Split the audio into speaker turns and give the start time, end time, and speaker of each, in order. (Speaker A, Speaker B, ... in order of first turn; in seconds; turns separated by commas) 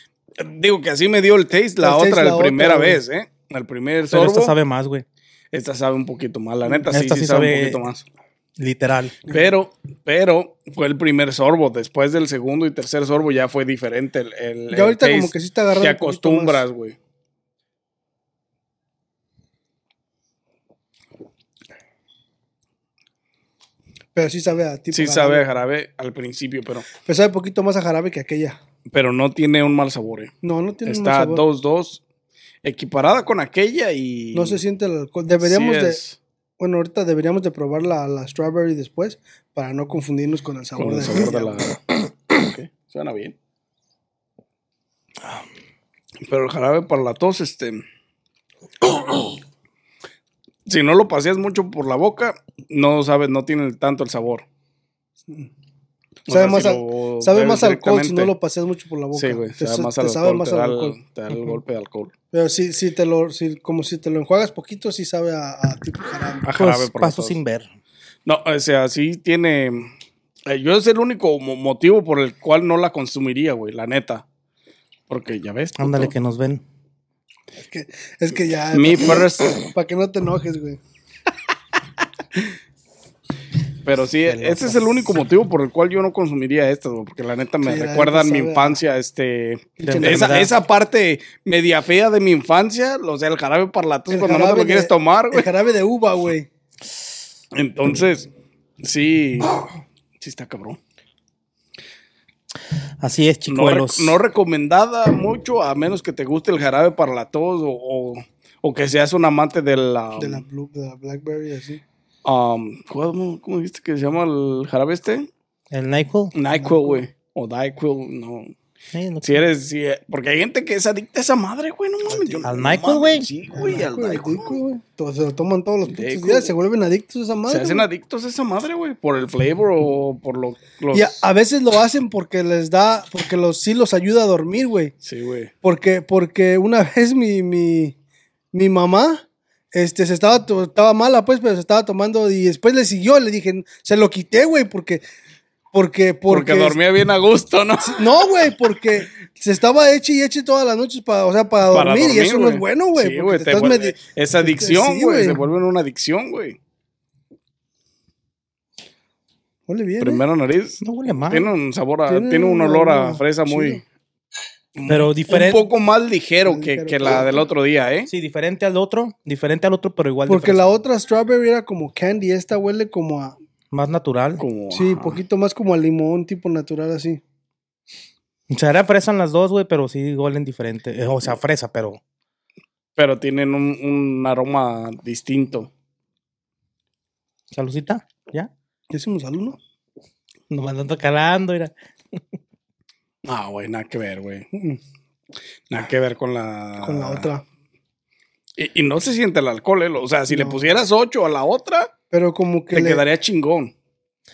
Speaker A: 0.4-4.5, Speaker B: 1.8-3.0, Speaker C: 4.1-5.0, Speaker A: 5.5-8.0, Speaker C: 6.9-7.8, Speaker C: 8.6-9.2, Speaker A: 9.3-16.9, Speaker B: 14.7-16.6, Speaker B: 24.1-25.5, Speaker A: 24.9-26.9, Speaker B: 27.0-28.6, Speaker A: 28.9-30.3, Speaker B: 30.4-31.4, Speaker A: 30.9-32.0, Speaker A: 32.6-34.6, Speaker B: 34.3-36.0, Speaker A: 35.4-36.2, Speaker B: 36.6-41.8, Speaker A: 40.8-41.8, Speaker A: 42.3-43.3, Speaker A: 46.2-47.8, Speaker A: 50.7-54.4, Speaker A: 56.3-58.3, Speaker B: 56.3-61.0, Speaker A: 59.1-62.1, Speaker B: 62.3-66.5, Speaker A: 66.4-67.4, Speaker C: 66.5-67.7, Speaker A: 68.2-69.9, Speaker A: 70.5-74.2, Speaker A: 75.1-76.1, Speaker C: 75.8-76.6, Speaker B: 77.6-80.8, Speaker A: 78.7-79.6, Speaker A: 83.8-95.5, Speaker C: 84.3-84.8, Speaker B: 87.6-88.8, Speaker B: 89.8-90.5, Speaker C: 89.8-90.5, Speaker B: 94.1-96.5, Speaker A: 97.5-98.3, Speaker A: 98.8-99.7, Speaker A: 100.2-100.8, Speaker C: 103.0-104.2, Speaker A: 103.5-110.4, Speaker B: 110.2-111.8, Speaker A: 112.2-115.3, Speaker C: 115.7-116.3, Speaker A: 116.3-118.5, Speaker B: 116.5-117.1, Speaker C: 118.9-119.4, Speaker A: 119.2-124.6, Speaker B: 122.0-122.5, Speaker C: 122.4-123.3, Speaker B: 123.5-127.9, Speaker A: 125.8-126.5, Speaker A: 127.5-131.2, Speaker B: 130.9-134.9, Speaker A: 135.0-135.5, Speaker B: 135.6-137.9, Speaker B: 138.5-145.0, Speaker B: 145.7-146.8, Speaker A: 146.3-148.5, Speaker B: 147.8-155.4, Speaker A: 151.6-156.6, Speaker B: 159.7-160.2, Speaker A: 160.0-163.8, Speaker C: 160.8-161.5, Speaker B: 162.1-163.8, Speaker C: 164.8-165.7, Speaker A: 165.3-168.1, Speaker B: 166.4-167.4, Speaker C: 168.1-170.7, Speaker B: 170.2-173.3, Speaker C: 173.7-174.4, Speaker A: 174.4-175.2, Speaker B: 174.7-177.2, Speaker C: 178.5-182.0, Speaker A: 183.0-185.7, Speaker C: 187.5-188.5, Speaker B: 188.9-189.6, Speaker C: 190.5-192.2, Speaker A: 193.2-194.5, Speaker B: 194.5-194.8, Speaker A: 195.7-197.3, Speaker B: 196.8-197.4, Speaker A: 198.6-201.9, Speaker B: 200.3-200.6, Speaker B: 202.1-203.0, Speaker A: 202.7-203.7